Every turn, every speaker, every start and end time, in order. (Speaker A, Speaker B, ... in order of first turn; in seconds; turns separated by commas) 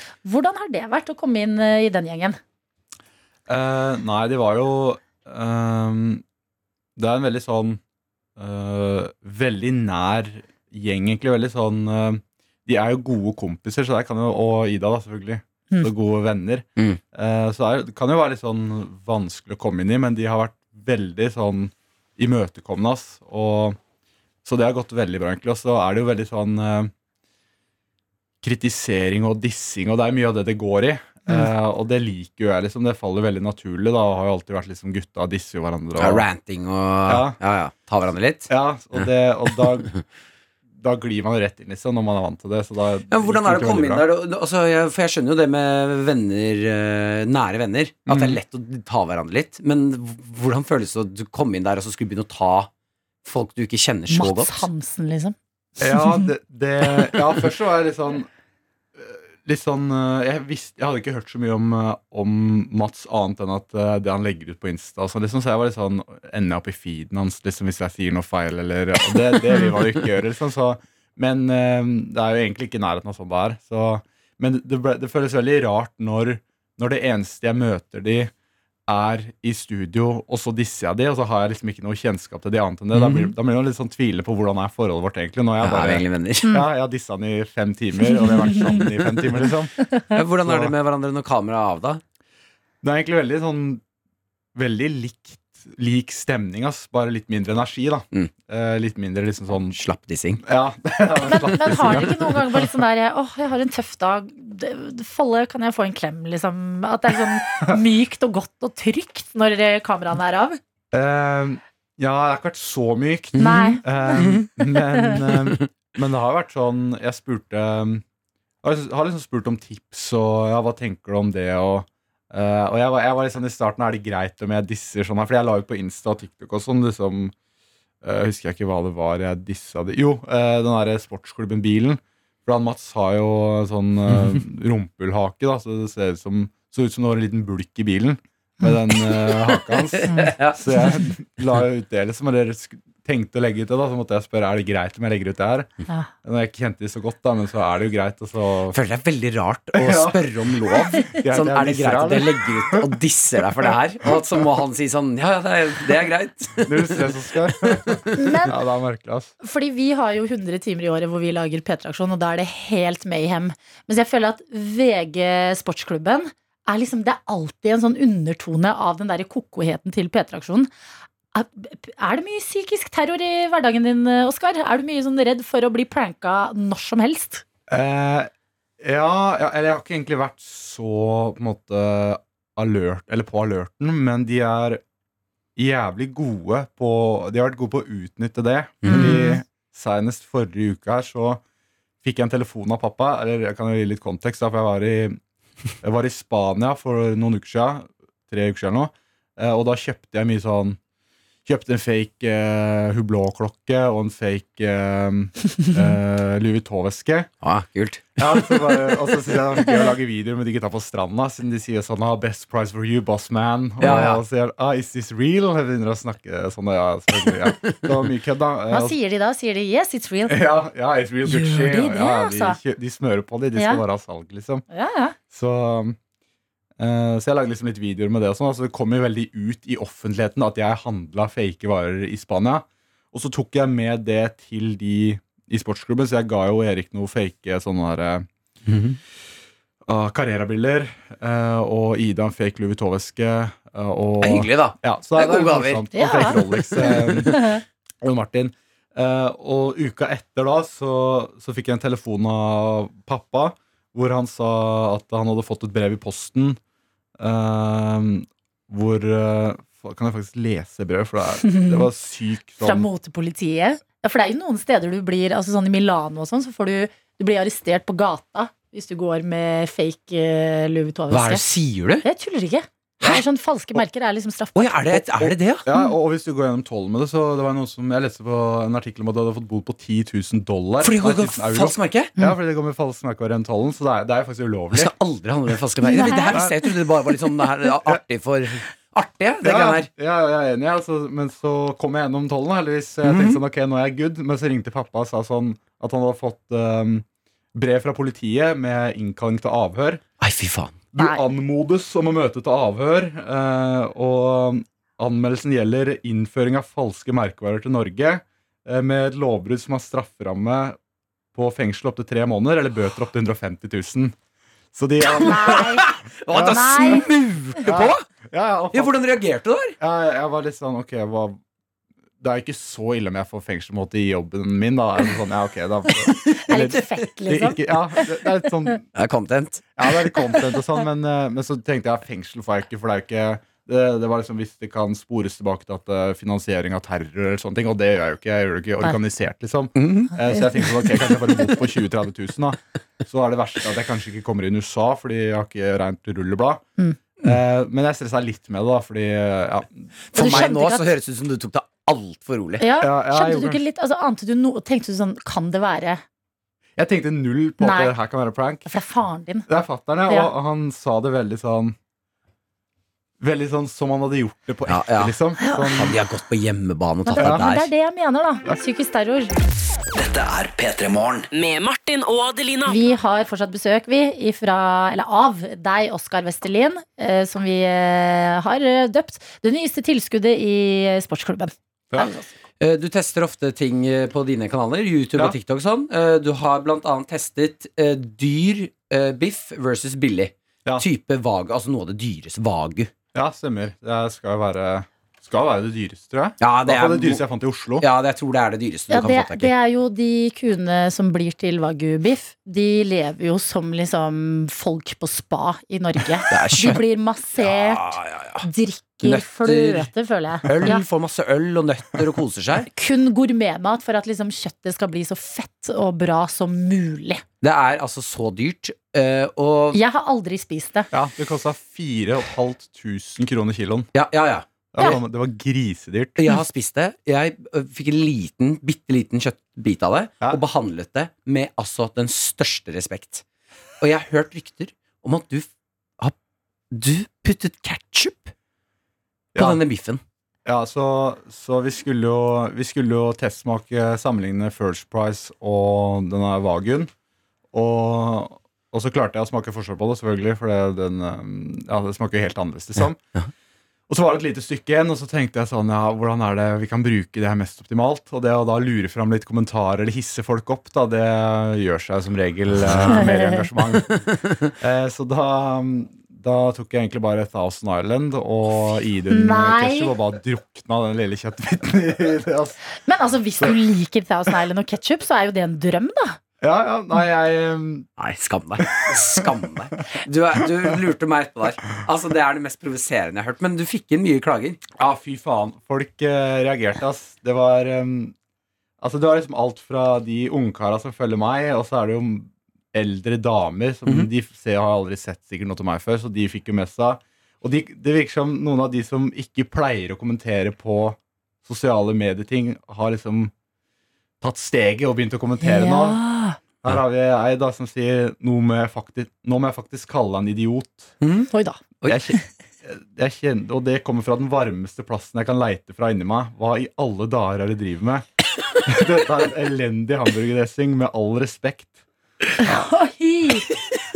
Speaker A: 0.2-2.4, Speaker B: 3.5-6.2, Speaker B: 7.0-7.8, Speaker B: 8.4-23.8, Speaker B: 24.4-26.9, Speaker B: 28.4-36.3, Speaker C: 36.0-40.0, Speaker B: 37.1-37.4, Speaker B: 38.5-40.0, Speaker B: 40.8-44.0, Speaker C: 43.1-52.7, Speaker B: 48.1-48.4, Speaker C: 53.2-54.7, Speaker A: 54.1-56.3, Speaker B: 55.8-58.3, Speaker B: 59.0-78.3, Speaker B: 78.9-89.7, Speaker C: 82.9-83.3, Speaker C: 85.6-86.6, Speaker C: 88.6-89.5, Speaker C: 90.1-92.0, Speaker B: 90.4-90.7, Speaker B: 92.8-93.8, Speaker B: 94.5-99.8, Speaker C: 99.7-100.4, Speaker B: 100.4-102.7, Speaker A: 101.3-110.6, Speaker C: 101.5-102.2, Speaker B: 110.9-118.0, Speaker C: 113.4-114.5, Speaker A: 113.4-114.3, Speaker B: 118.6-127.3, Speaker B: 128.0-145.7, Speaker C: 139.0-141.0, Speaker B: 146.2-148.8, Speaker C: 148.7-158.1, Speaker B: 149.7-150.3, Speaker B: 151.1-152.9, Speaker B: 156.6-159.3, Speaker A: 158.1-158.5, Speaker A: 159.4-170.7, Speaker A: 171.3-177.4, Speaker B: 177.7-178.3, Speaker B: 178.8-184.8, Speaker B: 185.6-191.4, Speaker A: 188.8-189.4, Speaker C: 188.9-189.2, Speaker B: 192.0-195.2, Speaker B: 195.8-200.8, Speaker B: 201.5-207.3, Speaker C: 207.4-209.0, Speaker B: 208.2-218.9, Speaker C: 213.8-214.2, Speaker C: 217.6-217.9, Speaker A: 218.7-220.5, Speaker B: 220.3-224.7, Speaker A: 221.3-222.6, Speaker A: 223.6-223.8, Speaker A: 224.7-225.2, Speaker B: 225.3-226.0, Speaker B: 226.8-238.3, Speaker C: 238.7-239.0, Speaker B: 239.9-247.4, Speaker C: 244.2-247.5, Speaker A: 245.9-246.4, Speaker B: 248.0-256.6, Speaker B: 257.2-262.9, Speaker A: 261.5-261.9, Speaker A: 262.6-271.4, Speaker C: 271.1-272.1, Speaker A: 272.0-274.8, Speaker C: 274.6-275.7, Speaker B: 275.2-284.9, Speaker C: 280.8-282.1, Speaker C: 284.7-289.9, Speaker A: 285.9-286.5, Speaker B: 286.3-286.6, Speaker B: 289.4-300.0, Speaker C: 293.0-293.4, Speaker C: 300.2-300.8, Speaker B: 300.9-310.8, Speaker A: 301.0-301.2, Speaker B: 311.3-314.1, Speaker B: 314.7-317.1, Speaker C: 315.0-318.0, Speaker A: 315.2-315.9, Speaker A: 316.4-317.1, Speaker B: 317.6-319.0, Speaker C: 318.7-319.8, Speaker B: 319.8-321.4, Speaker B: 322.2-328.9, Speaker A: 326.5-328.1, Speaker C: 328.9-329.6, Speaker B: 329.8-346.6, Speaker C: 339.8-340.1, Speaker B: 347.2-350.5, Speaker C: 350.1-352.7, Speaker A: 350.1-350.9, Speaker A: 352.6-356.0, Speaker B: 352.8-353.6, Speaker B: 356.8-358.7, Speaker A: 357.6-357.9, Speaker A: 358.7-359.5, Speaker B: 359.5-361.8, Speaker B: 363.2-366.0, Speaker C: 364.7-365.2, Speaker A: 365.4-365.8, Speaker C: 365.8-367.7, Speaker A: 367.1-369.3, Speaker B: 367.2-367.4, Speaker D: 369.9-372.9, Speaker A: 372.7-382.2, Speaker B: 381.9-382.2, Speaker C: 382.6-392.9, Speaker B: 393.1-397.9, Speaker C: 396.4-397.2, Speaker C: 397.8-399.5, Speaker A: 398.9-410.8, Speaker C: 406.3-406.8, Speaker C: 407.4-408.4, Speaker C: 409.0-409.9, Speaker C: 410.4-412.7, Speaker A: 412.8-417.2, Speaker C: 417.4-419.8, Speaker A: 419.7-420.9, Speaker B: 420.9-423.9, Speaker C: 423.9-424.5, Speaker B: 424.7-426.2, Speaker C: 426.2-433.2, Speaker C: 433.8-435.5, Speaker C: 436.7-438.3, Speaker B: 439.4-439.6, Speaker C: 439.4-440.0, Speaker B: 440.5-446.9, Speaker B: 447.5-453.0, Speaker B: 453.9-464.0, Speaker C: 462.6-463.1, Speaker A: 462.9-463.4, Speaker B: 464.6-472.6, Speaker A: 469.1-469.9, Speaker A: 472.8-476.2, Speaker B: 476.4-477.9, Speaker C: 478.0-484.6, Speaker B: 484.8-488.1, Speaker B: 488.8-503.3, Speaker B: 504.2-506.0, Speaker A: 505.4-506.4, Speaker B: 506.6-510.9, Speaker C: 511.0-511.3, Speaker A: 511.3-511.6, Speaker B: 511.9-518.0, Speaker B: 518.7-521.7, Speaker A: 522.4-523.5, Speaker B: 522.4-522.7